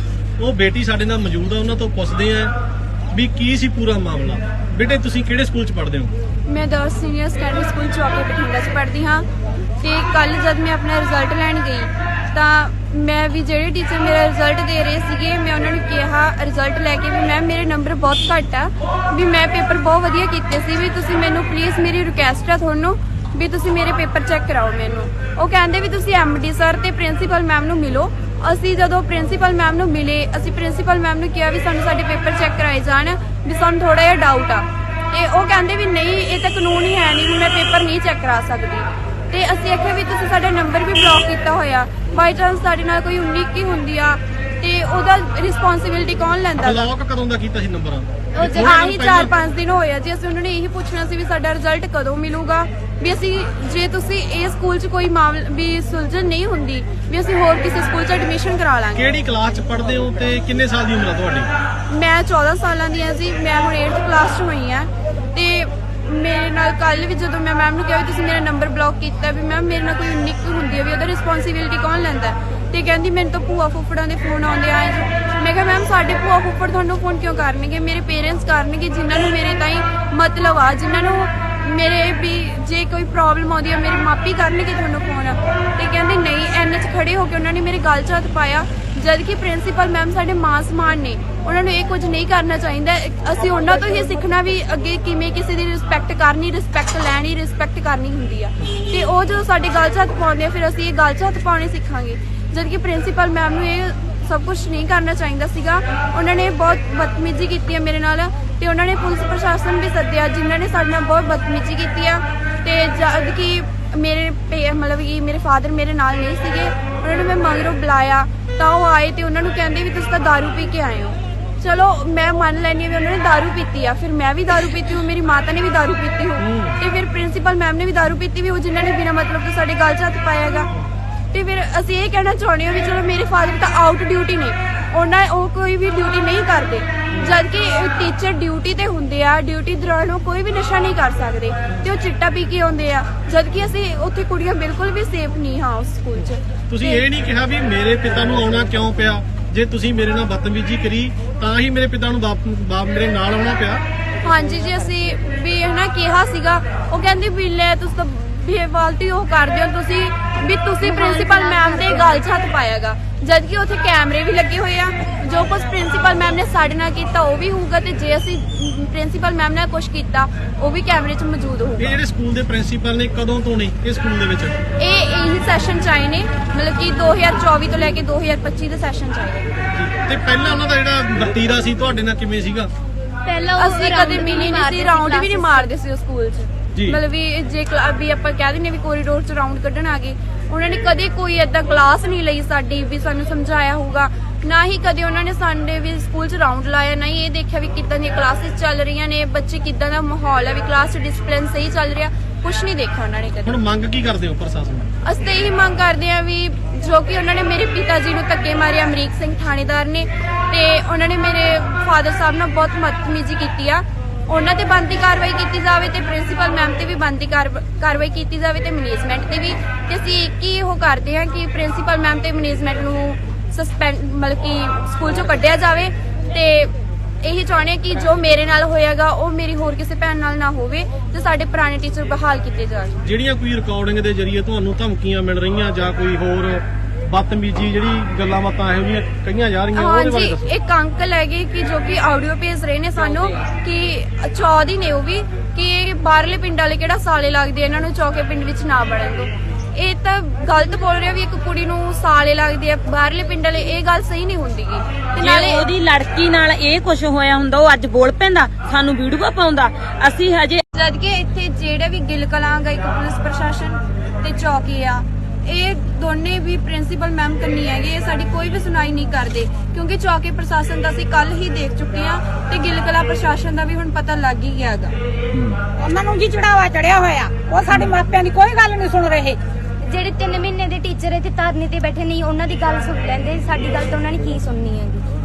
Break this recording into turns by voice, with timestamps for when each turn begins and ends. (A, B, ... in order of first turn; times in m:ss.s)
0:00.4-0:02.5 A
0:03.1-0:06.1 A
0:06.5-0:09.2 B
0:09.8-0:46.9 B
0:46.6-0:49.3 A
0:48.4-0:59.1 B
0:58.9-1:01.5 A
1:01.9-2:10.7 B
2:06.4-2:06.8 A
2:11.3-2:27.0 B
2:17.1-2:17.4 A
2:26.7-2:33.8 A
2:34.2-2:52.0 B
2:40.9-2:42.2 C
2:51.8-2:54.6 A
2:54.8-2:59.5 B
2:59.7-3:02.7 A
3:03.3-3:05.6 C
3:03.6-3:23.6 B
3:06.7-3:07.0 A
3:23.4-3:24.9 A
3:25.0-3:52.9 B
3:53.0-4:00.5 A
3:59.7-4:15.7 B
4:03.0-4:03.4 D
4:15.2-4:20.6 D
4:20.7-4:34.9 B
4:35.7-4:39.4 E
4:39.9-4:45.1 C